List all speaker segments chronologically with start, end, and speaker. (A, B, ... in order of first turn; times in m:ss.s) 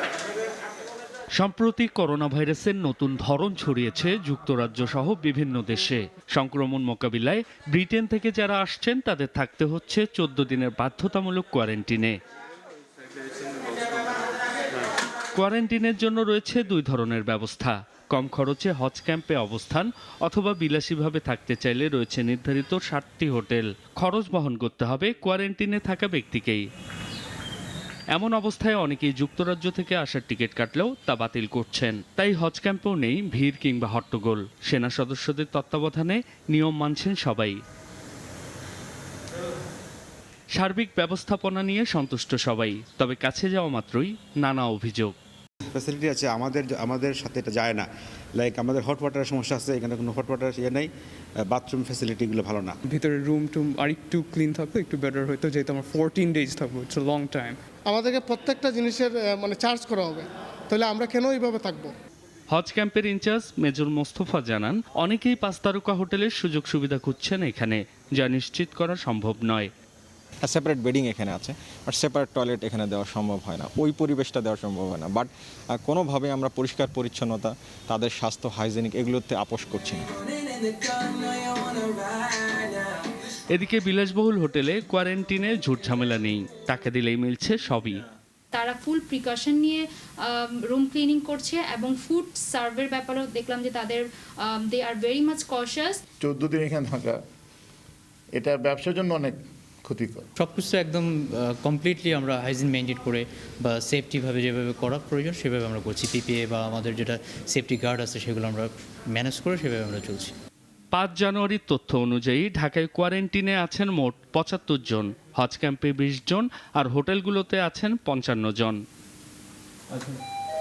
0:01.4-0:12.1 A
0:15.3-0:26.6 A
0:28.1-0:37.6 A
0:40.6-0:45.1 A
0:45.7-0:47.8 B
0:48.4-0:50.9 B
0:51.4-0:52.7 B
0:52.9-0:57.6 C
0:57.8-1:01.9 D
1:02.5-1:09.7 A
1:10.4-1:20.0 E
1:23.5-1:28.0 A
1:28.5-1:36.0 F
1:36.2-1:37.2 G
1:38.3-1:40.3 G
1:40.4-1:50.3 H
1:50.9-1:58.8 A